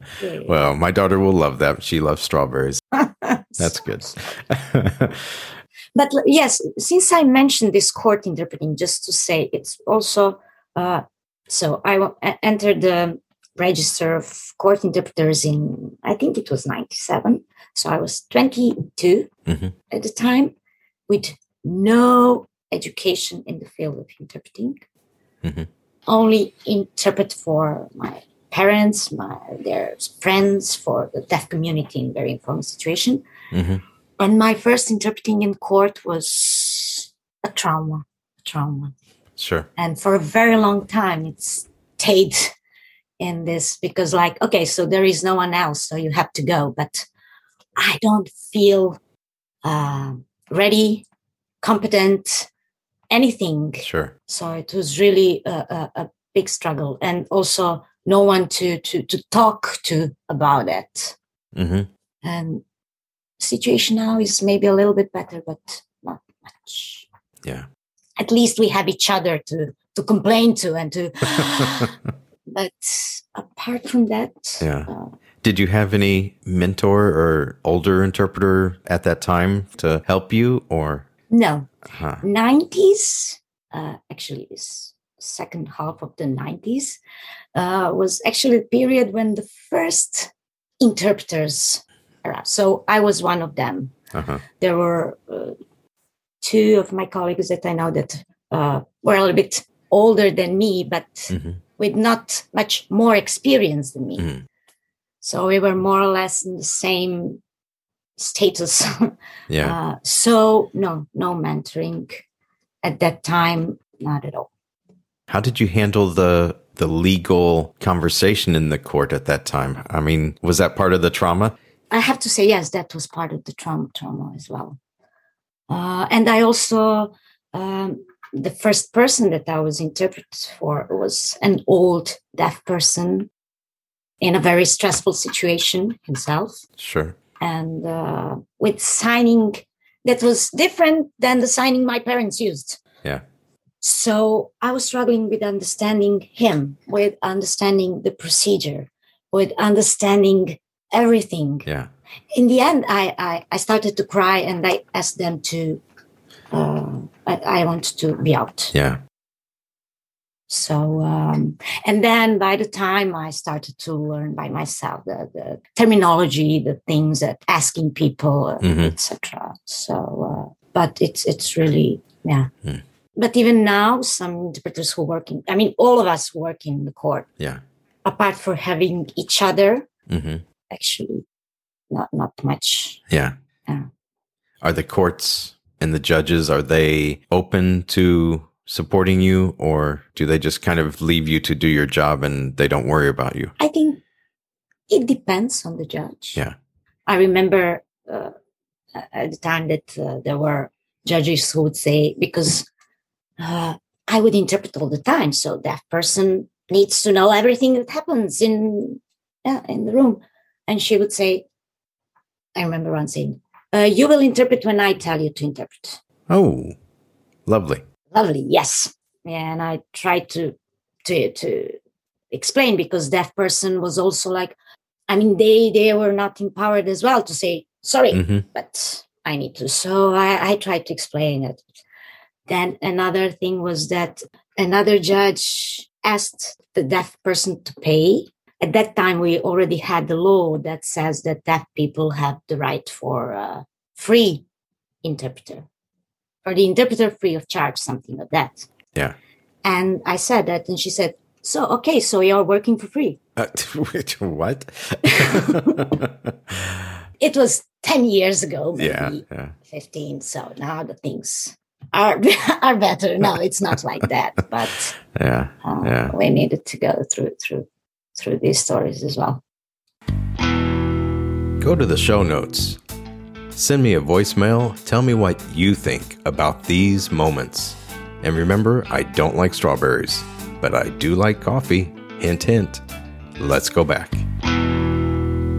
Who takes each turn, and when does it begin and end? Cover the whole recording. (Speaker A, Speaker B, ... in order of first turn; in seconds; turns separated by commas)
Speaker A: 0.2-0.6, Speaker B: 0.5-2.8, Speaker A: 3.0-4.1, Speaker B: 3.6-5.5, Speaker A: 6.0-19.3, Speaker B: 19.5-19.7, Speaker A: 19.9-20.6, Speaker A: 21.1-24.8, Speaker B: 25.4-25.7, Speaker A: 26.1-33.2, Speaker B: 33.5-33.8, Speaker A: 34.2-38.9, Speaker B: 39.4-39.7, Speaker A: 39.8-42.5, Speaker A: 43.2-47.1, Speaker A: 47.8-49.0, Speaker A: 49.6-51.0, Speaker A: 51.6-52.5, Speaker A: 53.1-61.2, Speaker B: 53.8-54.1, Speaker B: 61.5-61.9, Speaker A: 62.2-62.6, Speaker A: 63.4-67.1, Speaker A: 68.2-72.0, Speaker A: 72.5-75.1, Speaker B: 74.6-74.9, Speaker B: 75.4-81.1, Speaker A: 81.3-87.0, Speaker B: 81.9-82.2, Speaker A: 87.5-94.0, Speaker B: 94.1-94.4, Speaker A: 94.6-95.5, Speaker A: 96.4-104.3, Speaker B: 101.3-101.6, Speaker B: 104.2-104.4, Speaker A: 105.2-107.4, Speaker A: 108.2-112.2, Speaker B: 109.5-109.8, Speaker A: 112.8-114.5, Speaker B: 115.3-121.5, Speaker A: 121.9-124.8, Speaker A: 125.7-133.3, Speaker A: 134.2-136.6, Speaker B: 136.8-137.2, Speaker A: 137.4-142.8, Speaker A: 143.8-151.7, Speaker A: 152.3-155.8, Speaker A: 156.5-158.7, Speaker B: 158.7-159.0, Speaker A: 160.5-172.5, Speaker B: 168.6-168.9, Speaker A: 173.2-177.3, Speaker A: 178.1-179.9, Speaker B: 180.1-180.4, Speaker A: 180.7-181.2, Speaker A: 181.9-183.0, Speaker B: 184.6-193.5, Speaker A: 193.6-194.0, Speaker A: 194.9-196.4, Speaker A: 197.1-198.3, Speaker A: 198.9-202.7, Speaker A: 203.4-211.4, Speaker A: 212.6-216.0, Speaker B: 216.3-216.8, Speaker B: 217.5-217.8, Speaker A: 218.1-221.8, Speaker A: 222.3-224.6, Speaker A: 225.1-231.6, Speaker B: 228.1-228.4, Speaker A: 232.5-244.4, Speaker A: 245.0-245.7, Speaker A: 246.4-248.7, Speaker A: 249.6-253.2, Speaker B: 253.4-256.9, Speaker A: 255.0-255.9, Speaker A: 257.2-265.0, Speaker B: 258.8-259.6, Speaker B: 265.1-266.1, Speaker A: 265.6-269.4, Speaker B: 271.6-272.8, Speaker B: 273.5-282.8, Speaker B: 283.4-284.2